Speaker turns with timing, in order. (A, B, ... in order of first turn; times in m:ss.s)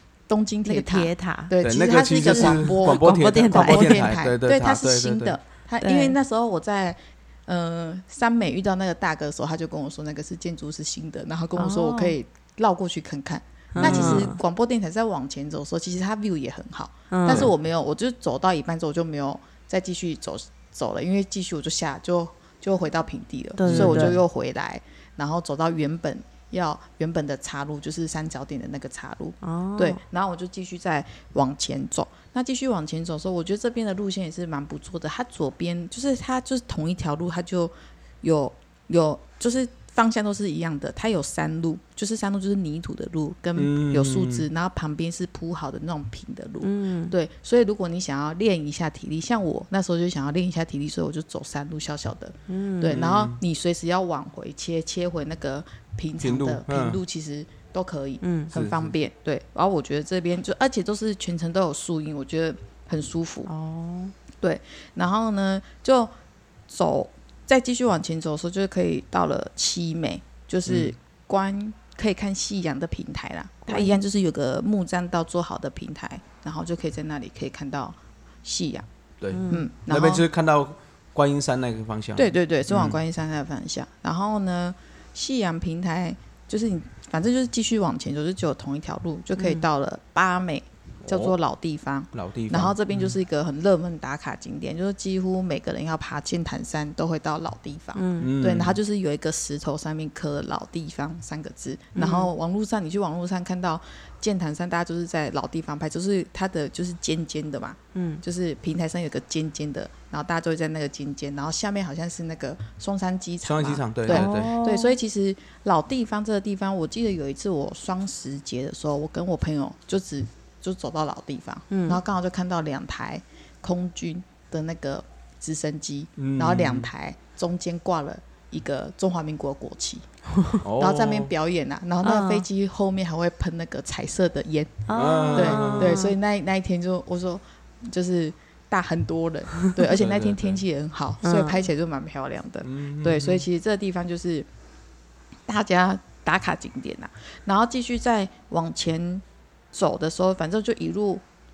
0:00.3-1:03.5 A
0:00.7-0:01.5 B
0:01.6-0:05.4 C
0:02.1-0:04.1 B
0:05.8-0:06.2 B
0:11.6-0:12.2 B
0:13.8-0:14.4 B
0:13.8-0:14.3 C
0:17.1-0:17.5 B
0:23.6-0:24.2 B
0:23.6-0:24.2 C
0:29.4-0:30.0 B
0:43.6-0:44.5 C
0:46.6-0:47.1 B
0:52.5-0:53.0 B
0:52.9-0:53.4 C
0:56.2-0:57.0 C
0:58.2-0:58.5 B
0:58.5-0:58.9 C
1:03.5-1:04.1 B
1:04.4-1:06.1 A
1:06.7-1:18.9 A
1:10.7-1:10.9 C
1:13.7-1:14.0 B
1:19.2-1:23.0 C
1:19.3-1:19.7 B
1:19.5-1:20.2 A
1:22.2-2:10.0 A
1:29.4-1:29.6 B
1:31.0-1:31.4 C
1:32.1-1:33.2 C
1:38.0-1:38.3 B
1:38.2-1:38.8 C
1:42.0-1:42.3 B
1:48.0-1:48.2 B
1:53.4-1:54.5 C
1:54.1-1:55.0 B
2:01.7-2:02.0 B
2:06.2-2:06.9 C
2:10.6-2:11.3 C
2:10.8-2:24.5 A
2:12.0-2:12.5 B
2:14.9-2:16.2 B
2:14.9-2:16.0 C
2:19.8-2:20.6 C
2:21.2-2:21.6 B
2:22.6-2:23.5 C
2:25.5-2:31.2 A